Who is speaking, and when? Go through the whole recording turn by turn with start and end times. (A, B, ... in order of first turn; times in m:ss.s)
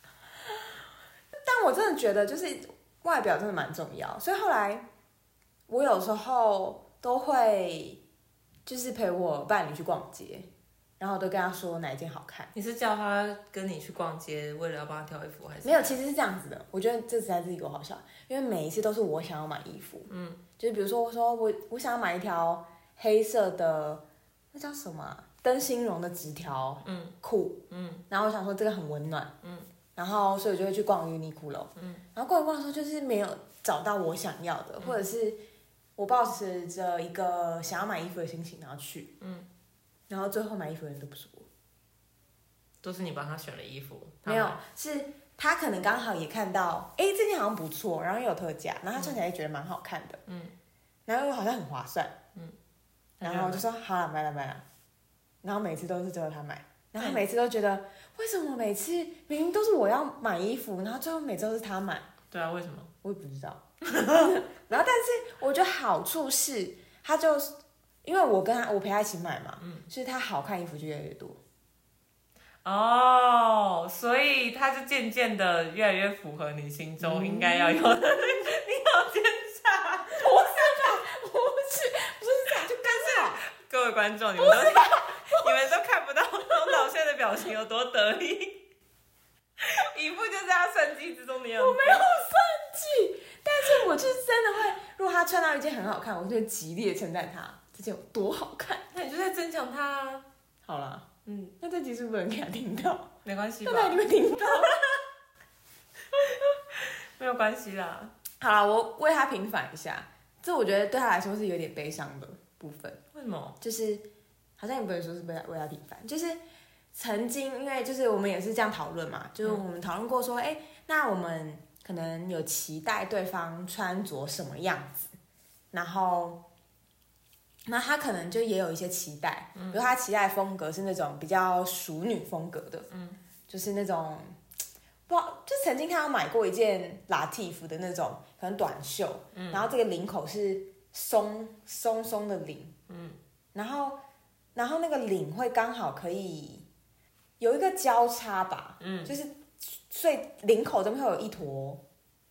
0:01.4-0:04.8 A
0:05.7-0:08.0 A
0:08.6-0:10.5 A
0:11.0-0:12.5 A
0:12.5-0:16.0 B
0:15.6-0:27.6 A
0:20.1-0:20.4 B
0:26.8-0:27.2 B
0:27.7-0:28.0 B
0:28.1-0:29.3 A
0:29.4-0:29.7 B
0:30.0-0:35.4 A
0:31.8-0:32.0 B
0:36.0-0:39.1 A
0:39.2-0:39.5 B
0:40.1-0:41.5 A
0:42.8-0:44.6 B
0:44.2-0:50.2 A
0:50.3-0:50.5 B
0:51.0-0:52.1 A
0:53.2-0:53.6 B
0:53.2-0:54.6 A
0:55.4-1:02.1 A
0:57.0-0:57.2 B
1:02.3-1:02.9 B
1:03.0-1:11.4 A
1:03.9-1:04.3 B
1:09.6-1:09.8 B
1:12.6-1:21.0 B
1:17.0-1:18.2 A
1:20.1-1:23.4 A
1:22.8-1:28.6 B
1:24.4-1:25.5 A
1:29.6-1:32.1 B
1:31.6-1:38.8 A
1:38.9-1:40.2 B
1:40.6-1:41.0 A
1:41.2-1:41.5 B
1:41.6-1:43.1 A
1:43.2-1:44.0 B
1:43.6-1:44.9 A
1:46.1-1:48.1 B
1:48.4-1:53.0 A
1:53.1-1:53.6 B
1:53.6-1:54.0 A
1:54.6-1:56.4 A
1:56.9-2:05.1 A
2:05.7-2:06.4 A
2:07.7-2:12.9 A
2:09.5-2:09.8 B
2:12.9-2:13.2 B
2:13.5-2:14.4 A
2:15.1-2:22.7 A
2:19.3-2:19.7 B
2:22.9-2:23.2 B
2:23.5-2:24.0 A
2:24.5-2:26.6 A
2:27.4-2:31.8 A
2:28.8-2:29.1 B